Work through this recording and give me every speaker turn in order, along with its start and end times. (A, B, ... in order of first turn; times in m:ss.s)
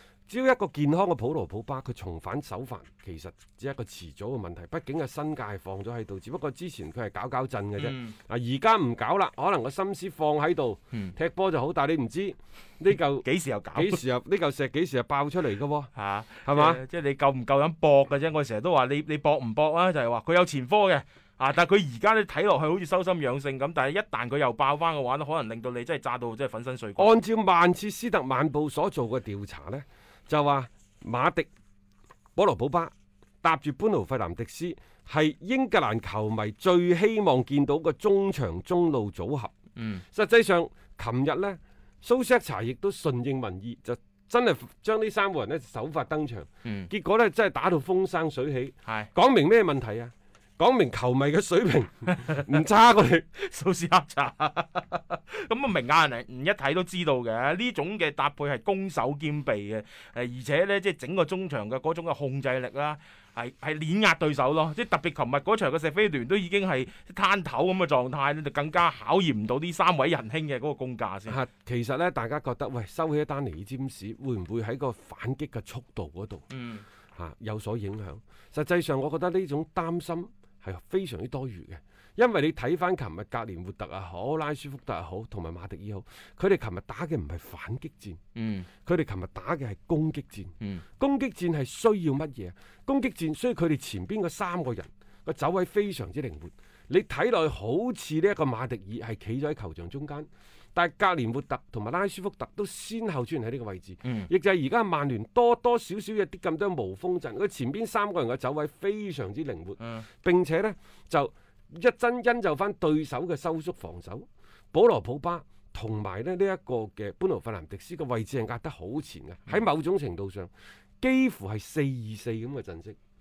0:00.3-0:15.9 A
0:07.8-0:08.2 B
0:13.2-0:14.0 B
0:15.9-0:27.1 B
0:16.4-0:16.8 A
0:27.0-0:31.5 A
0:32.3-0:39.5 A
0:39.8-0:40.0 B
0:40.1-0:53.3 A
0:46.6-0:46.9 B
0:53.3-1:11.4 B
1:11.3-1:16.4 A
1:16.5-1:16.8 B
1:17.2-1:28.2 A
1:28.4-1:28.7 B
1:28.8-2:03.0 A
1:44.0-1:44.3 B
1:49.8-1:50.0 B